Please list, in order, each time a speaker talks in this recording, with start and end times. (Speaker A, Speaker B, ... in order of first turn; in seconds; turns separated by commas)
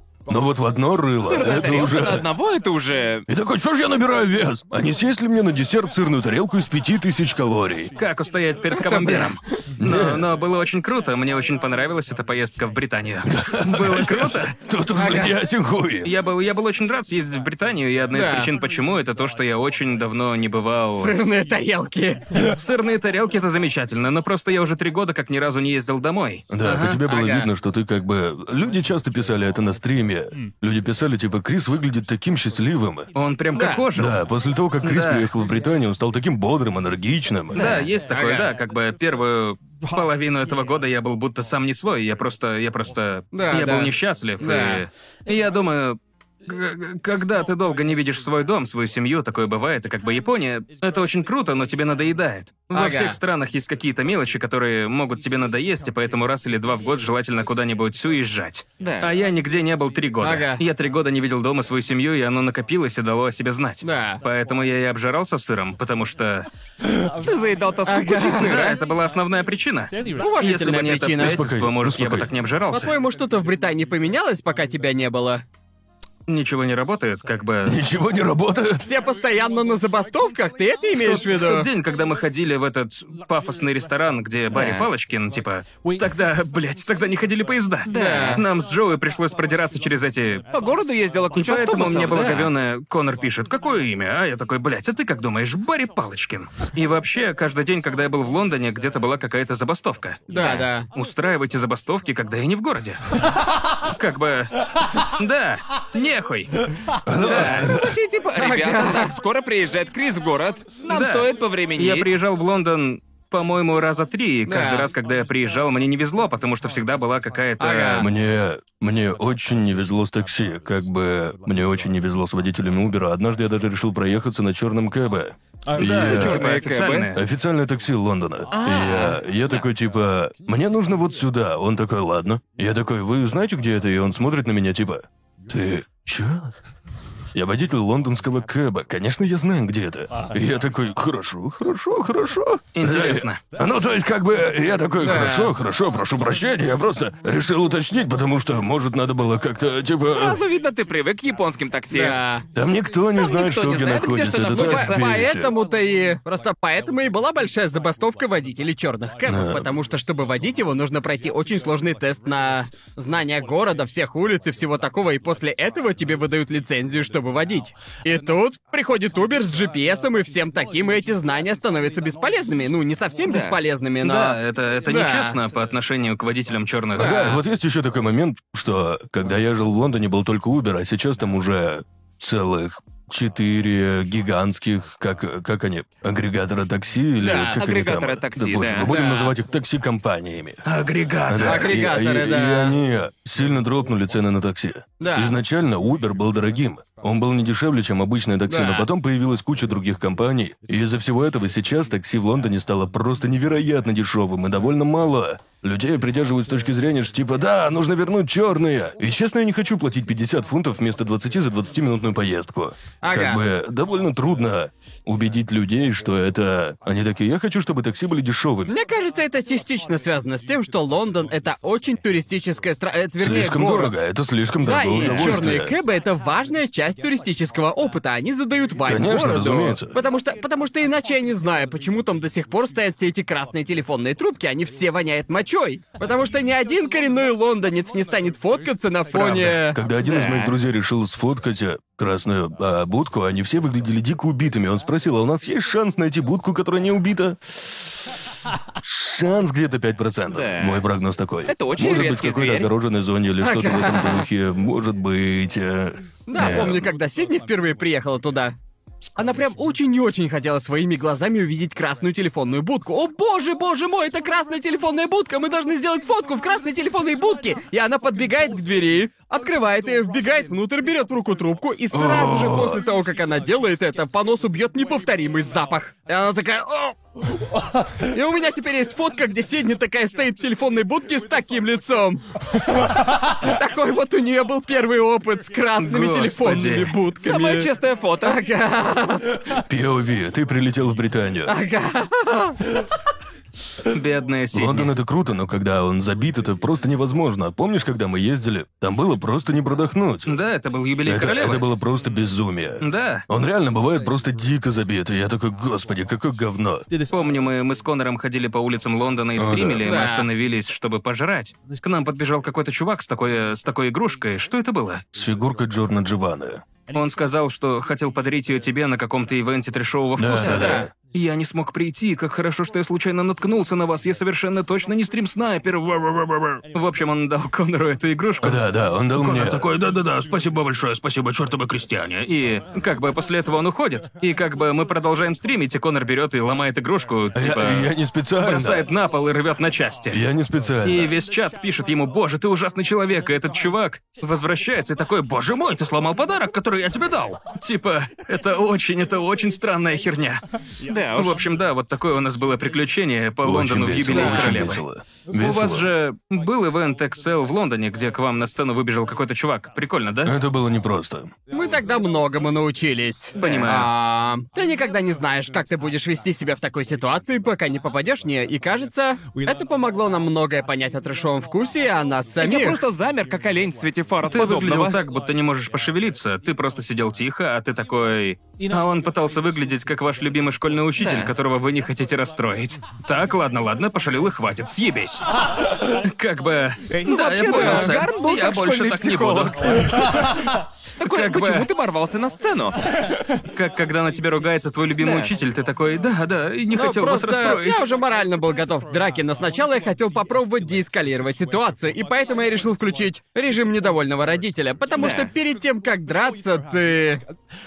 Speaker A: 0.3-2.3, Speaker B: 1.2-3.2, Speaker A: 3.3-7.9, Speaker C: 8.0-14.5, Speaker D: 8.7-9.3, Speaker A: 9.8-10.3, Speaker A: 13.2-16.1, Speaker D: 14.9-15.4, Speaker C: 16.0-21.2, Speaker D: 18.1-18.5, Speaker D: 21.0-22.3, Speaker C: 22.4-27.0, Speaker A: 26.5-33.1, Speaker D: 26.7-27.5, Speaker C: 33.1-34.1, Speaker D: 33.5-33.8, Speaker A: 33.9-37.7, Speaker C: 34.8-35.3, Speaker C: 37.5-66.5, Speaker D: 37.5-38.5, Speaker D: 43.3-44.9, Speaker D: 52.7-53.2, Speaker B: 58.8-59.1, Speaker D: 60.2-60.6, Speaker D: 63.8-64.2, Speaker B: 67.2-68.8, Speaker D: 67.8-68.6, Speaker C: 68.2-72.9, Speaker D: 70.1-71.4, Speaker A: 71.2-72.3, Speaker D: 72.7-75.4, Speaker C: 76.3-77.8, Speaker A: 77.6-78.9, Speaker D: 78.8-81.7, Speaker C: 80.9-90.5, Speaker B: 84.5-84.9, Speaker B: 87.9-88.4, Speaker D: 87.9-88.4, Speaker B: 90.5-92.5, Speaker C: 91.3-106.7, Speaker D: 100.3-100.9, Speaker B: 100.3-100.6, Speaker A: 107.0-108.0, Speaker B: 107.2-112.1, Speaker D: 107.2-107.7, Speaker C: 107.3-107.5, Speaker D: 108.3-109.2, Speaker C: 110.9-118.1, Speaker D: 114.5-114.9, Speaker D: 117.6-118.1, Speaker A: 118.0-126.5, Speaker C: 125.7-127.2, Speaker B: 125.8-127.1, Speaker A: 127.1-136.5, Speaker B: 128.5-129.6, Speaker A: 137.3-150.4, Speaker C: 142.7-143.4, Speaker D: 145.0-145.5, Speaker B: 150.1-152.2, Speaker D: 151.9-152.4, Speaker A: 152.5-155.5, Speaker B: 153.1-155.1, Speaker D: 154.5-175.4, Speaker A: 159.2-159.7, Speaker B: 173.3-173.6, Speaker C: 174.0-177.2, Speaker D: 177.0-177.4, Speaker A: 177.0-190.6, Speaker D: 187.2-187.6, Speaker B: 187.5-188.9, Speaker D: 188.9-189.3, Speaker C: 190.6-191.7, Speaker A: 191.3-218.7, Speaker D: 191.4-192.8, Speaker D: 195.0-195.3, Speaker D: 198.5-198.9, Speaker D: 213.0-213.4, Speaker D: 218.7-223.9, Speaker A: 223.2-225.7, Speaker D: 224.6-239.8, Speaker A: 228.8-230.0, Speaker A: 239.1-248.1, Speaker B: 240.0-240.5, Speaker A: 248.8-256.9, Speaker B: 250.3-250.8, Speaker B: 251.4-252.7, Speaker D: 253.4-254.3, Speaker D: 256.3-258.5, Speaker D: 259.2-277.0, Speaker A: 271.9-272.8, Speaker D: 278.0-282.2, Speaker D: 283.3-287.7, Speaker C: 285.8-286.9, Speaker B: 287.2-288.4, Speaker D: 288.2-289.4, Speaker A: 289.6-291.5, Speaker D: 291.4-292.6, Speaker C: 293.9-294.9, Speaker A: 294.5-300.4, Speaker C: 300.2-301.6, Speaker A: 301.0-306.9, Speaker C: 302.8-303.2, Speaker C: 307.1-315.0, Speaker A: 309.4-309.9, Speaker D: 309.8-310.3, Speaker A: 315.1-316.6, Speaker C: 316.9-328.6, Speaker A: 320.2-320.9, Speaker D: 320.4-320.9, Speaker A: 328.4-329.7, Speaker C: 329.2-340.2, Speaker A: 337.3-338.9, Speaker A: 340.1-341.1, Speaker C: 340.8-350.4, Speaker B: 350.9-351.4, Speaker C: 351.1-360.4, Speaker A: 353.4-355.9, Speaker D: 354.1-354.6, Speaker A: 360.2-361.3, Speaker D: 361.5-372.8, Speaker C: 363.4-363.9, Speaker B: 363.4-363.7, Speaker B: 372.4-375.0, Speaker C: 374.3-390.4, Speaker B: 381.0-381.3, Speaker B: 387.0-389.7, Speaker D: 387.5-388.0, Speaker B: 391.0-392.8, Speaker C: 391.0-391.7, Speaker C: 393.4-397.8, Speaker B: 395.0-395.3, Speaker D: 396.7-407.2, Speaker B: 404.9-405.3